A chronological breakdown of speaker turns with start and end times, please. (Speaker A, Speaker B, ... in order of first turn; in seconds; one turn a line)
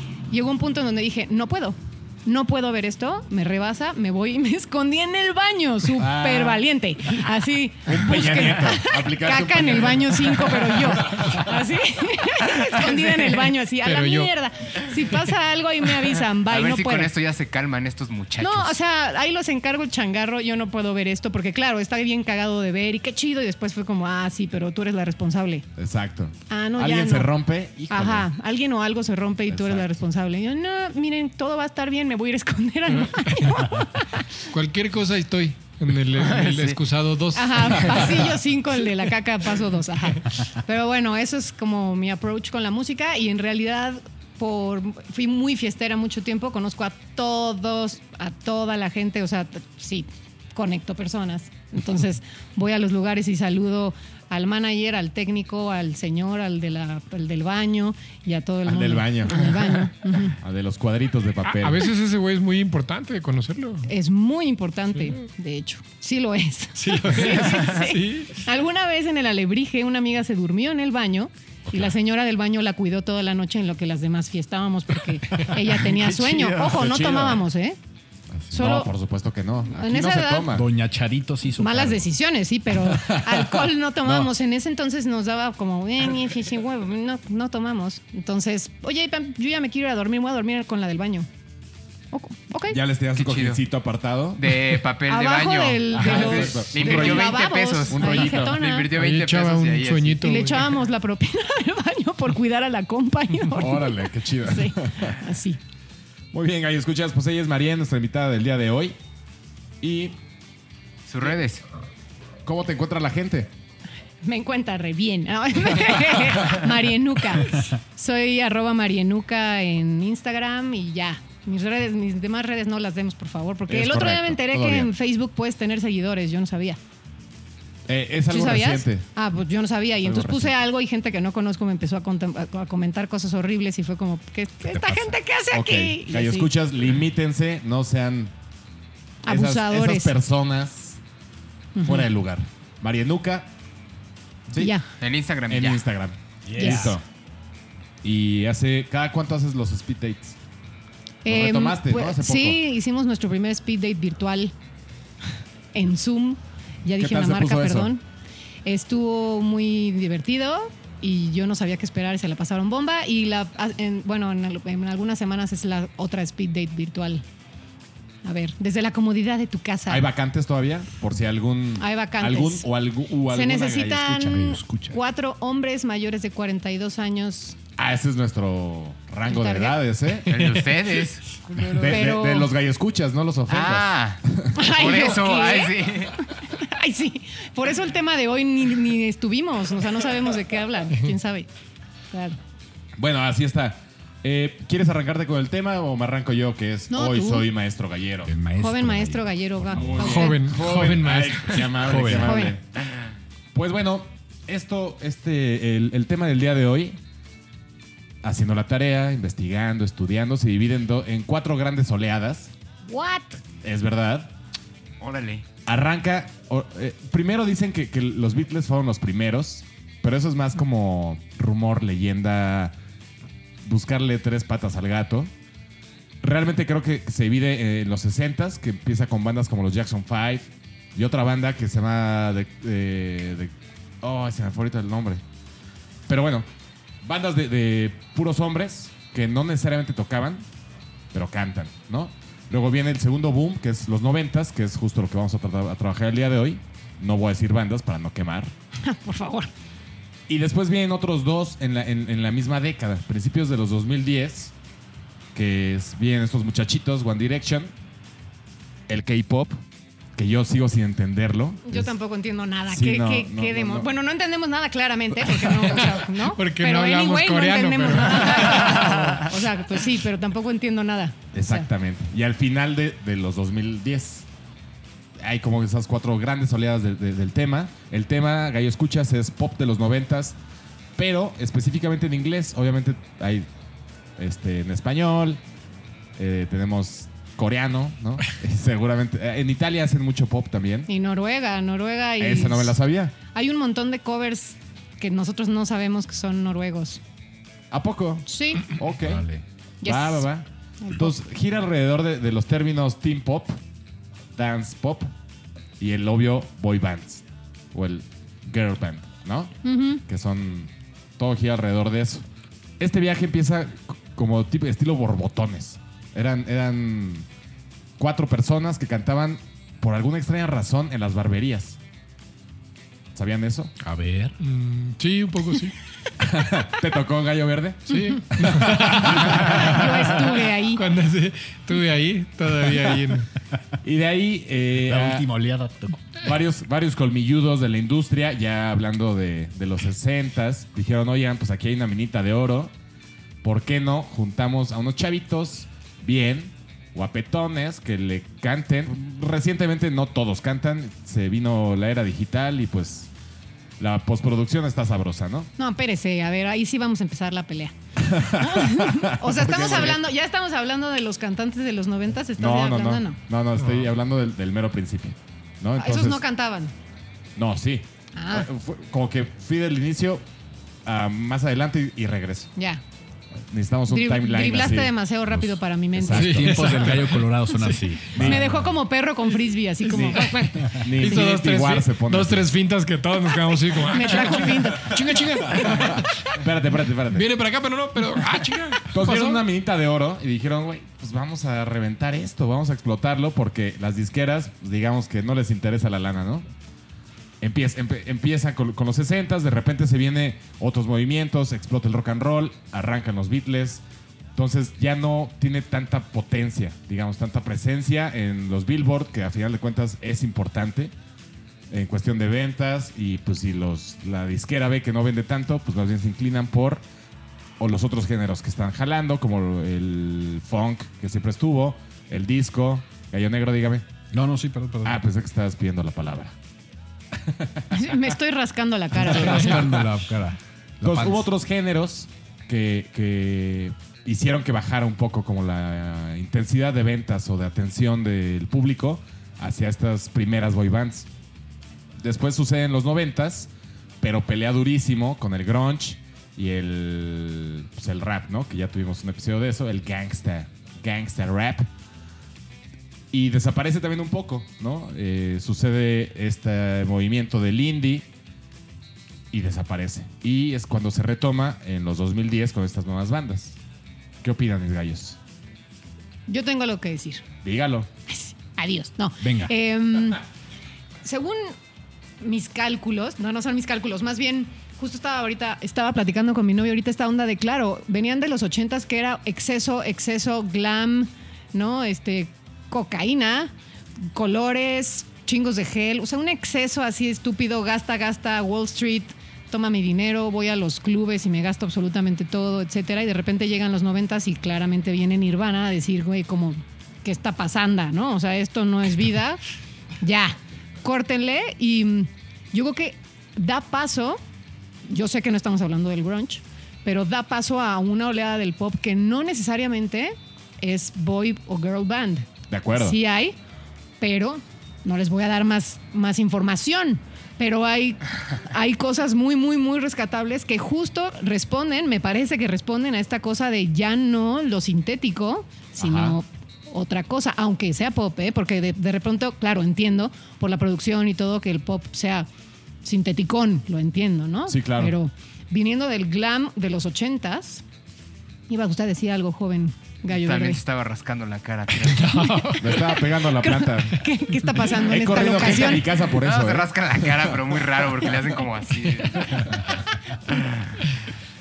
Speaker A: 0.3-17.1
Speaker B: 6.0-6.6
Speaker B: 7.8-11.5
Speaker C: 13.8-14.3
Speaker D: 16.4-18.8
Speaker A: 18.4-25.7
Speaker B: 25.8-28.3
Speaker A: 26.5-27.3
Speaker A: 27.9-34.3
Speaker B: 29.5-30.0
Speaker C: 33.2-33.7
Speaker C: 34.5-38.3
Speaker D: 36.1-36.8
Speaker A: 37.3-60.4
Speaker B: 58.6-59.7
Speaker B: 60.4-61.9
Speaker C: 61.5-63.9
Speaker A: 63.8-77.8
Speaker C: 66.8-68.4
Speaker B: 76.5-77.4
Speaker A: 78.5-78.9
Speaker B: 78.5-80.7
Speaker A: 79.7-80.5
Speaker E: 80.5-82.0
Speaker A: 81.6-91.3
Speaker B: 82.9-83.5
Speaker B: 84.0-84.3
Speaker A: 92.1-92.8
Speaker B: 92.7-94.7
Speaker D: 93.2-93.6
Speaker D: 94.4-100.5
Speaker A: 95.1-98.9
Speaker B: 95.9-98.6
Speaker C: 98.9-100.7
Speaker A: 100.2-105.6
Speaker B: 103.5-105.2
Speaker B: 106.3-109.0
Speaker B: 109.8-110.2
Speaker D: 111.1-111.6
Speaker B: 112.4-113.5
Speaker A: 114.2-126.8
Speaker B: 123.7-124.9
Speaker B: 127.9-129.1
Speaker A: 128.3-136.5
Speaker B: 130.0-130.5
Speaker E: 134.7-135.1
Speaker B: 135.5-138.3
Speaker A: 139.2-140.1
Speaker B: 139.2-141.0
Speaker A: 141.7-142.1
Speaker B: 141.8-143.5
Speaker B: 144.5-144.8
Speaker A: 144.6-144.8
Speaker D: 145.0-145.8
Speaker B: 145.5-147.0
Speaker E: 146.5-147.0
Speaker A: 146.6-146.9
Speaker B: 148.0-150.4
Speaker A: 151.2-154.5
Speaker B: 151.2-152.6
Speaker A: 155.7-158.0
Speaker B: 157.0-157.9
Speaker A: 158.6-167.2
Speaker A: 168.2-170.1
Speaker B: 169.9-174.3
Speaker A: 171.8-172.7
Speaker A: 173.3-177.6
Speaker E: 174.1-175.0
Speaker B: 177.8-180.6
Speaker A: 179.2-179.8
Speaker D: 180.3-181.3
Speaker B: 181.7-184.7
Speaker A: 181.8-182.5
Speaker D: 183.5-186.2
Speaker A: 184.5-191.5
Speaker A: 192.1-192.4
Speaker B: 193.0-198.3
Speaker A: 196.9-197.5
Speaker E: 198.2-200.1
Speaker A: 198.6-200.4
Speaker B: 199.7-202.6
Speaker C: 200.0-202.2
Speaker E: 201.8-202.4
Speaker A: 202.1-202.6
Speaker B: 203.5-207.0
Speaker B: 208.2-212.5
Speaker A: 212.8-213.4
Speaker B: 213.6-214.3
Speaker D: 215.0-215.4
Speaker B: 215.7-222.7
Speaker B: 223.6-225.3
Speaker B: 226.2-235.2
Speaker B: 236.1-236.5
Speaker B: 237.0-240.4
Speaker B: 241.1-248.5
Speaker A: 248.8-249.5
Speaker B: 250.3-254.5
Speaker B: 255.3-257.7
Speaker B: 258.9-259.6
Speaker B: 260.1-261.9
Speaker A: 261.6-271.7
Speaker B: 262.7-263.9
Speaker C: 265.8-269.2
Speaker B: 271.3-274.2
Speaker B: 275.2-280.4
Speaker B: 280.9-283.5
Speaker B: 284.2-285.4
Speaker B: 286.2-290.9
Speaker A: 290.9-292.8
Speaker B: 292.2-293.1
Speaker A: 293.3-297.0
Speaker B: 297.7-299.2
Speaker A: 298.2-298.7
Speaker E: 299.0-299.4
Speaker A: 299.8-300.3
Speaker B: 299.8-303.6
Speaker A: 300.8-301.1
Speaker B: 304.3-305.1
Speaker B: 305.8-312.2
Speaker A: 309.6-310.0
Speaker B: 312.8-317.3
Speaker B: 318.0-321.8
Speaker B: 323.1-323.7
Speaker E: 323.8-324.4
Speaker C: 324.4-325.8
Speaker B: 326.2-329.7
Speaker C: 327.9-333.3
Speaker A: 329.3-330.8
Speaker B: 333.8-335.3
Speaker E: 334.8-336.1
Speaker B: 336.2-342.7
Speaker B: 343.4-353.1
Speaker B: 353.8-355.5
Speaker A: 355.6-363.2
Speaker B: 358.0-360.0
Speaker B: 362.4-366.2
Speaker C: 363.6-363.8
Speaker A: 365.8-366.7
Speaker B: 367.4-370.2
Speaker A: 368.1-368.5
Speaker B: 370.8-372.5
Speaker A: 372.6-372.8
Speaker B: 373.5-374.9
Speaker A: 373.9-376.7
Speaker B: 375.9-376.7
Speaker E: 376.0-378.8
Speaker C: 376.3-378.0
Speaker A: 378.1-381.3
Speaker B: 378.1-378.4
Speaker B: 379.9-382.5
Speaker C: 380.0-386.3
Speaker A: 383.9-385.1
Speaker B: 385.7-387.3
Speaker C: 387.1-389.4
Speaker B: 388.9-396.5
Speaker B: 397.4-403.8
Speaker B: 404.3-410.9
Speaker B: 411.7-416.8
Speaker B: 417.6-423.8
Speaker E: 424.1-425.0
Speaker B: 424.8-426.3
Speaker B: 427.1-427.7
Speaker A: 427.7-429.8
Speaker E: 428.9-431.2
Speaker B: 429.1-429.7
Speaker B: 430.8-441.1
Speaker B: 442.0-443.5
Speaker B: 444.0-451.7
Speaker B: 453.1-458.1
Speaker B: 459.3-463.6
Speaker B: 464.2-465.2
Speaker A: 466.3-467.2
Speaker B: 467.4-467.9
Speaker A: 468.1-470.2
Speaker E: 469.2-469.5
Speaker A: 471.0-471.6
Speaker A: 472.2-483.5
Speaker A: 484.1-499.4
Speaker A: 500.0-504.2
Speaker A: 504.9-513.4
Speaker B: 512.5-513.0
Speaker A: 514.0-532.3
Speaker B: 525.8-526.2
Speaker A: 532.8-537.6
Speaker B: 534.5-535.0
Speaker A: 538.5-540.6
Speaker D: 540.1-542.1
Speaker C: 541.8-542.7
Speaker A: 542.1-545.9
Speaker B: 542.6-544.0
Speaker B: 544.8-547.3
Speaker D: 546.1-549.7
Speaker D: 550.3-550.7